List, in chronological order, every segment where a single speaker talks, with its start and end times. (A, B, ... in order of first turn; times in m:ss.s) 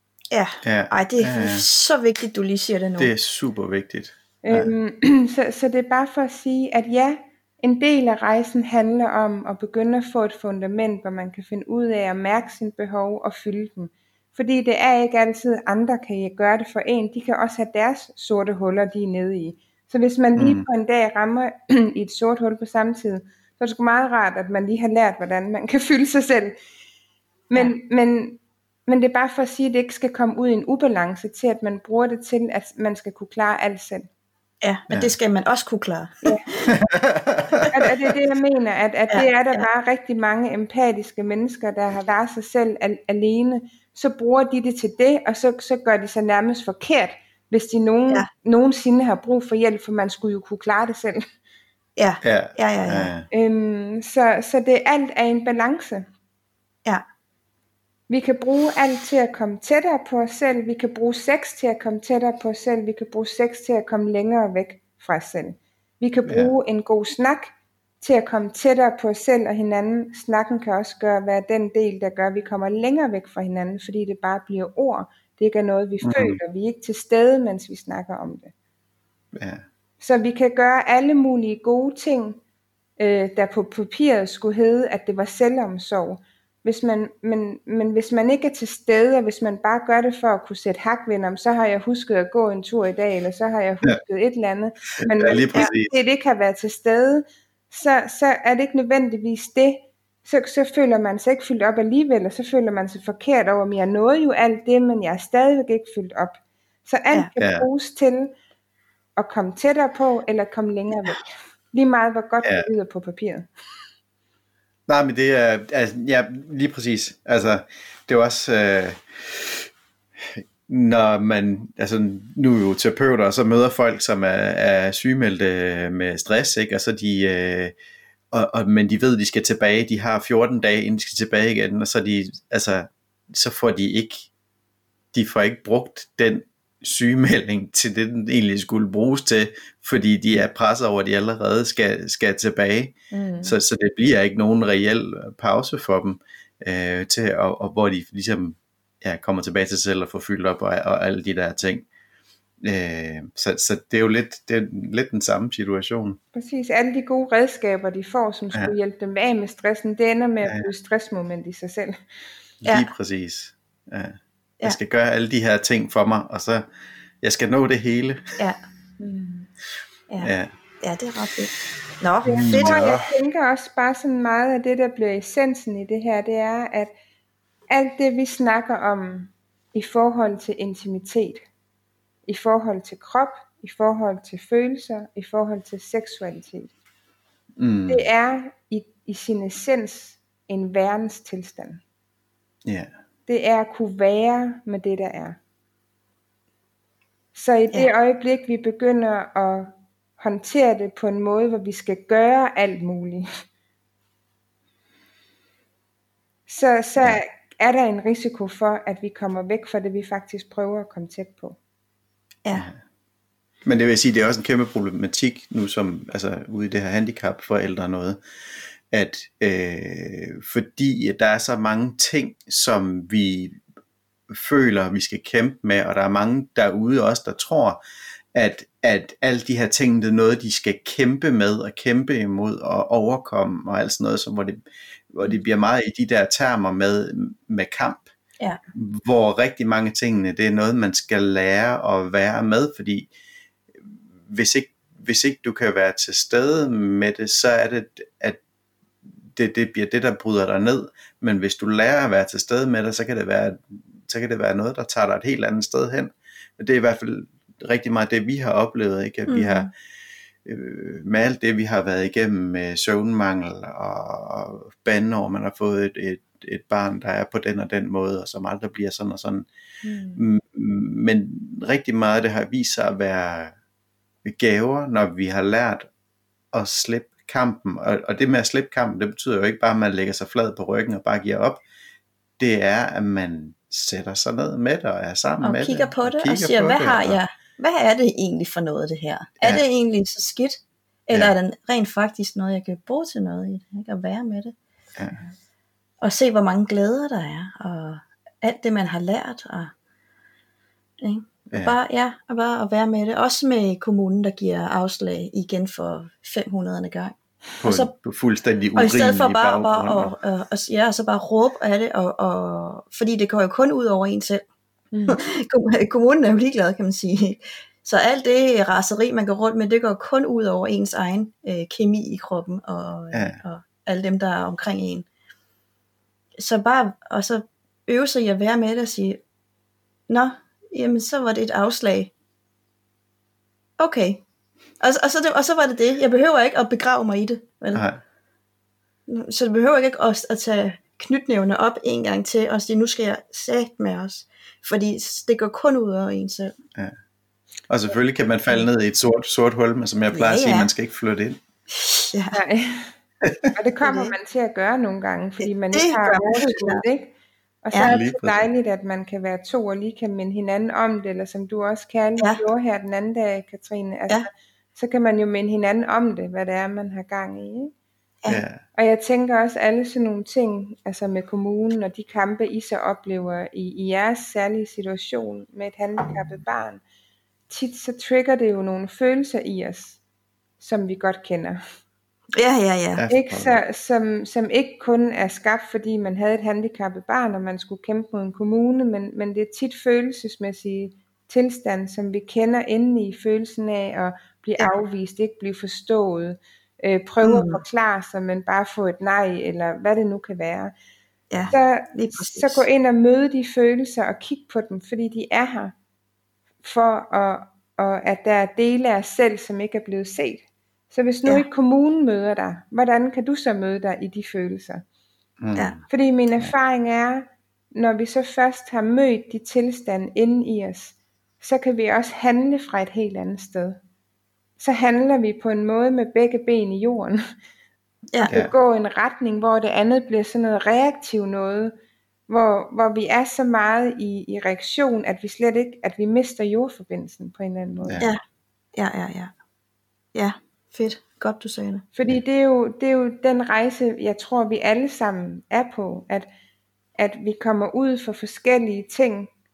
0:00.3-0:03.1 A
0:00.6-0:01.6 B
0:03.0-0:04.7 B
0:04.4-0:26.6 C
0:20.4-0:20.7 B
0:27.5-0:34.1 C
0:34.6-0:36.7 A
0:36.7-0:37.7 B
0:37.7-0:51.2 C
0:39.1-0:39.6 A
0:52.0-0:53.1 A
0:52.2-0:53.3 B
0:53.3-0:56.1 C
0:58.1-1:18.5 C
1:06.3-1:06.5 B
1:16.0-1:16.4 B
1:19.3-1:19.6 B
1:20.0-1:22.4 C
1:23.0-1:48.3 C
1:35.0-1:35.9 B
1:47.4-1:47.7 B
1:49.2-1:53.5 C
1:54.9-1:59.7 B
2:00.2-2:07.7 B
2:08.3-2:14.3 B
2:15.1-2:31.9 B
2:23.1-2:23.6 C
2:32.6-2:36.2 B
2:36.3-2:42.0 C
2:42.6-2:46.7 B
2:47.2-2:48.4 B
2:49.0-2:49.5 C
2:50.1-2:52.8 A
2:50.2-2:50.5 B
2:52.2-2:56.9 C
2:52.3-2:53.1 B
2:57.7-3:01.4 C
3:02.3-3:06.7 C
3:07.6-3:08.1 B
3:07.9-3:11.8 C
3:12.6-3:12.9 B
3:13.3-3:15.4 C
3:17.4-3:23.3 C
3:26.5-3:31.6 C
3:33.6-3:38.2 B
3:38.9-3:43.6 B
3:44.3-3:47.8 B
3:48.4-3:58.1 B
3:58.7-4:03.1 B
4:03.8-4:08.4 B
4:09.3-4:19.7 B
4:19.3-4:19.7 A
4:20.4-4:29.5 B
4:29.8-4:30.2 C
4:30.2-4:33.5 B
4:34.2-4:35.9 B
4:36.5-4:41.6 B
4:42.4-4:47.2 B
4:45.4-4:54.6 A
4:55.0-4:55.2 B
4:56.0-4:59.7 A
5:01.0-5:07.9 A
5:01.5-5:01.8 B
5:07.6-5:10.1 B
5:08.8-5:14.4 A
5:14.9-5:15.2 C
5:15.1-5:25.1 A
5:23.1-5:23.4 B
5:26.4-5:29.2 A
5:30.1-5:32.1 A
5:33.8-5:34.2 A
5:34.8-5:37.8 A
5:37.8-5:38.0 B
5:39.1-5:46.6 A
5:47.7-5:51.4 B
5:50.1-5:50.7 A
5:51.7-5:52.4 A
5:52.3-5:52.9 C
5:53.5-6:07.7 C
5:53.8-5:54.1 A
5:55.4-5:56.8 A
5:57.8-5:58.5 B
6:08.3-6:08.6 B
6:08.8-6:16.8 C
6:17.5-6:20.0 C
6:20.6-6:21.6 C
6:22.3-6:23.0 A
6:23.0-6:23.6 B
6:23.1-6:40.7 C
6:37.2-6:37.6 A
6:41.3-6:42.6 A
6:41.5-6:45.7 C
6:46.6-6:54.8 C
6:55.4-6:55.9 B
6:55.9-7:03.8 C
7:04.6-7:07.2 C
7:08.2-7:11.7 C
7:12.3-7:18.1 C
7:17.8-7:18.1 B
7:18.8-7:19.3 A
7:20.1-7:21.9 A
7:22.0-7:26.3 C
7:27.0-7:29.3 C